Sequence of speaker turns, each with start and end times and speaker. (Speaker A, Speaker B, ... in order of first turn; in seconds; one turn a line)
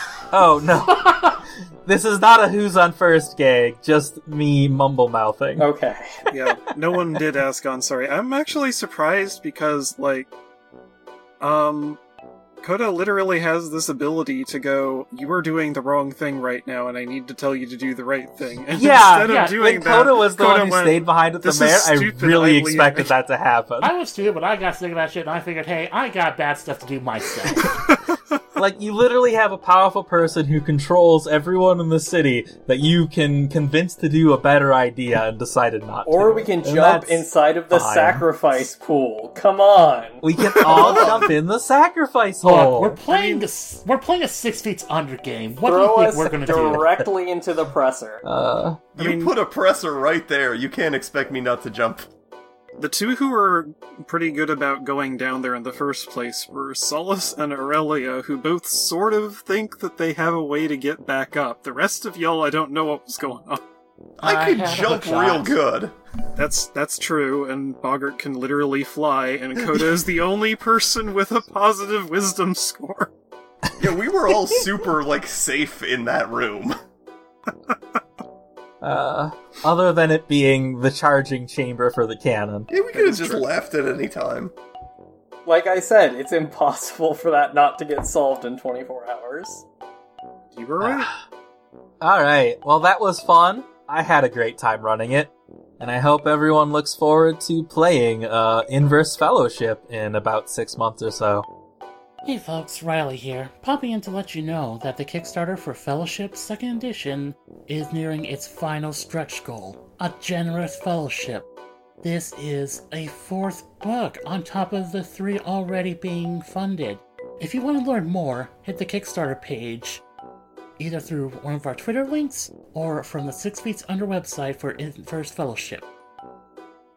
Speaker A: 0.3-5.7
Speaker B: 5.6-6.2
Speaker C: 6.3-10.3
Speaker C: 11.4-12.0
Speaker C: 12.6-23.1
Speaker A: 18.7-23.9
Speaker D: 19.2-20.1
Speaker D: 23.8-27.8
Speaker A: 28.5-38.2
Speaker B: 36.0-41.1
Speaker A: 40.2-43.0
Speaker E: 40.7-41.3
Speaker D: 42.4-46.9
Speaker C: 43.1-43.4
Speaker B: 45.6-48.2
Speaker A: 46.5-47.1
Speaker A: 48.2-48.8
Speaker E: 49.0-52.0
Speaker C: 49.0-49.3
Speaker C: 52.8-63.6
Speaker E: 64.2-66.0
Speaker D: 64.2-65.6
Speaker C: 66.3-73.1
Speaker E: 73.8-76.8
Speaker A: 78.8-82.7
Speaker E: 82.7-84.5
Speaker C: 82.9-83.4
Speaker B: 85.5-89.6
Speaker C: 90.5-91.1
Speaker A: 90.8-91.1
Speaker A: 92.0-101.5
Speaker D: 102.2-111.5
Speaker D: 112.0-120.0
Speaker D: 120.8-125.8